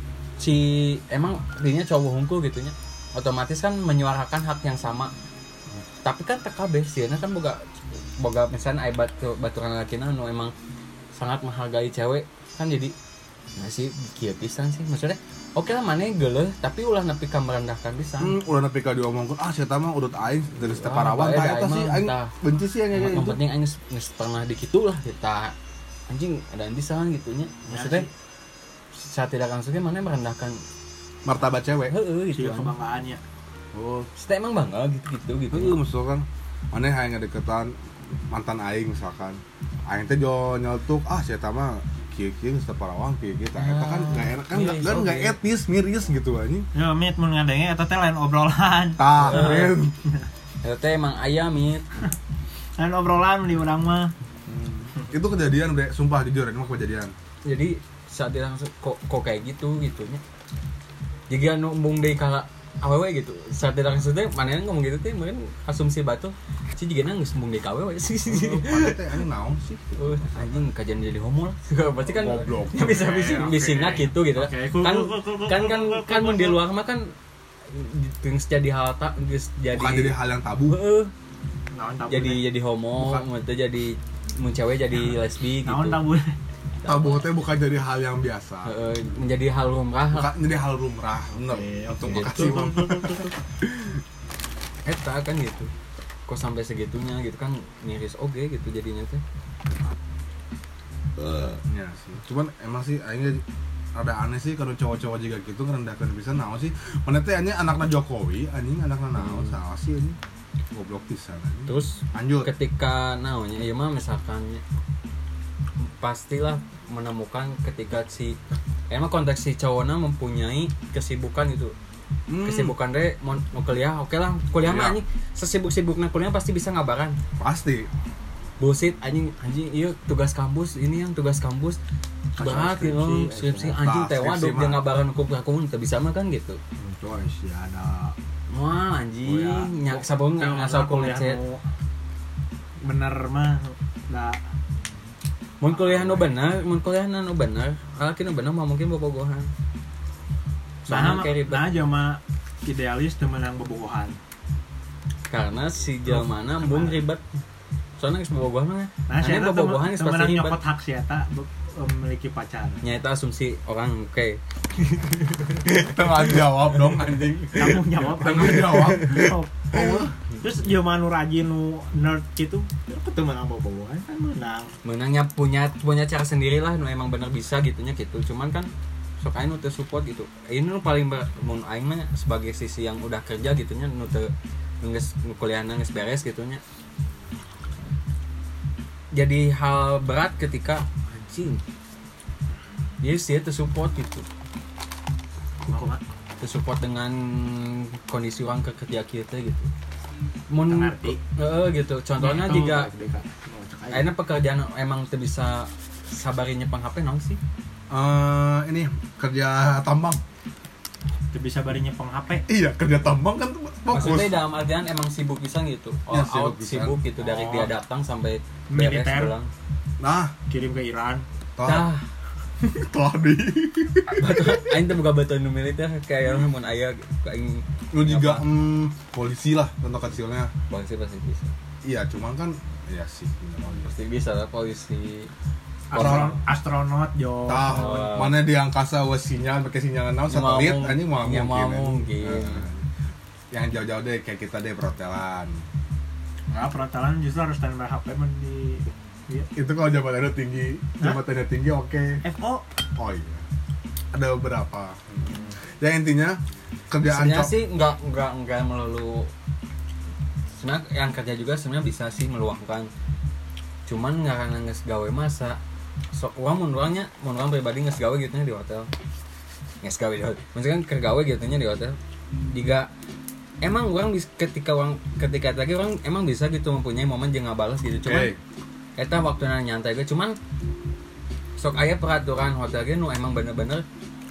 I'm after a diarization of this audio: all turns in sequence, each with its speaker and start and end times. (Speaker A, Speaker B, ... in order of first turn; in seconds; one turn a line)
Speaker A: 0.4-5.1
Speaker A: 6.0-10.5
Speaker A: 11.1-12.9
Speaker A: 13.6-18.4
Speaker B: 18.2-23.4
Speaker A: 20.6-22.3
Speaker A: 22.9-25.6
Speaker A: 26.1-28.1
Speaker C: 27.7-28.1
Speaker A: 28.9-30.6
Speaker B: 31.2-31.9
Speaker A: 31.9-32.7
Speaker C: 32.3-33.2
Speaker B: 33.7-34.1
Speaker A: 34.1-35.8
Speaker B: 35.5-37.7
Speaker B: 38.3-46.7
Speaker A: 43.6-45.4
Speaker C: 46.7-50.2
Speaker B: 49.0-50.0
Speaker A: 49.2-49.7
Speaker A: 50.6-52.0
Speaker C: 52.8-54.1
Speaker B: 54.5-57.1
Speaker A: 57.5-60.2
Speaker A: 61.3-69.0
Speaker B: 68.3-70.5
Speaker A: 70.0-77.1
Speaker B: 72.0-73.5
Speaker C: 72.8-76.6
Speaker A: 77.7-80.2
Speaker B: 79.7-80.8
Speaker A: 80.7-81.1
Speaker C: 81.7-82.5
Speaker A: 82.1-86.0
Speaker B: 83.0-83.2
Speaker C: 85.0-86.3
Speaker A: 86.8-87.2
Speaker B: 86.8-88.7
Speaker A: 88.7-90.3
Speaker B: 90.1-94.0
Speaker C: 91.5-93.3
Speaker A: 92.1-92.8
Speaker A: 94.8-95.7
Speaker A: 96.3-99.2
Speaker B: 101.5-103.4
Speaker B: 104.0-110.2
Speaker A: 109.2-109.5
Speaker B: 110.7-112.5
Speaker A: 111.7-114.6
Speaker A: 115.8-118.4
Speaker A: 118.9-121.8
Speaker B: 122.3-122.8
Speaker A: 122.4-127.2
Speaker B: 124.6-125.0
Speaker B: 127.4-127.9
Speaker A: 128.6-131.8
Speaker C: 132.4-133.8
Speaker A: 132.4-136.6
Speaker B: 133.8-134.8
Speaker C: 136.8-138.2
Speaker A: 138.5-141.4
Speaker C: 139.3-141.6
Speaker C: 142.8-144.4
Speaker A: 145.6-149.5
Speaker C: 145.7-146.3
Speaker A: 150.9-151.7
Speaker C: 150.9-154.2
Speaker A: 155.3-157.2
Speaker C: 156.1-157.0
Speaker A: 158.0-160.6
Speaker C: 159.1-162.8
Speaker A: 162.8-166.4
Speaker B: 165.7-170.1
Speaker C: 167.5-174.8
Speaker A: 174.8-186.6
Speaker A: 189.1-191.6
Speaker A: 193.0-194.3
Speaker C: 195.7-196.0
Speaker A: 196.4-199.7
Speaker A: 200.5-202.9
Speaker C: 200.7-201.2
Speaker C: 202.2-204.1
Speaker A: 203.9-207.4
Speaker B: 207.9-210.2
Speaker C: 211.3-212.4
Speaker B: 212.5-214.4
Speaker A: 213.9-219.5
Speaker B: 216.1-217.0
Speaker C: 217.3-217.7
Speaker C: 218.7-219.3
Speaker B: 220.0-220.3
Speaker C: 220.5-221.2
Speaker B: 221.6-221.9
Speaker A: 221.6-222.1
Speaker B: 222.6-224.7
Speaker A: 224.2-228.4
Speaker B: 227.9-230.5
Speaker A: 230.7-231.5
Speaker B: 231.8-233.9
Speaker A: 233.8-235.3
Speaker C: 235.9-238.0
Speaker A: 235.9-236.3
Speaker B: 235.9-236.4
Speaker B: 237.5-242.9
Speaker A: 237.7-238.4
Speaker A: 240.3-242.7
Speaker B: 243.5-245.6
Speaker C: 246.5-249.5
Speaker B: 249.5-252.2
Speaker C: 252.2-252.7
Speaker B: 253.0-253.4
Speaker B: 254.1-257.6
Speaker C: 255.3-255.6
Speaker A: 257.1-259.3
Speaker A: 260.5-262.9
Speaker A: 263.9-265.6
Speaker A: 266.1-268.9
Speaker A: 269.8-272.0
Speaker A: 272.5-272.9
Speaker A: 273.6-278.3
Speaker B: 278.1-278.4
Speaker A: 279.0-280.4
Speaker A: 281.6-283.9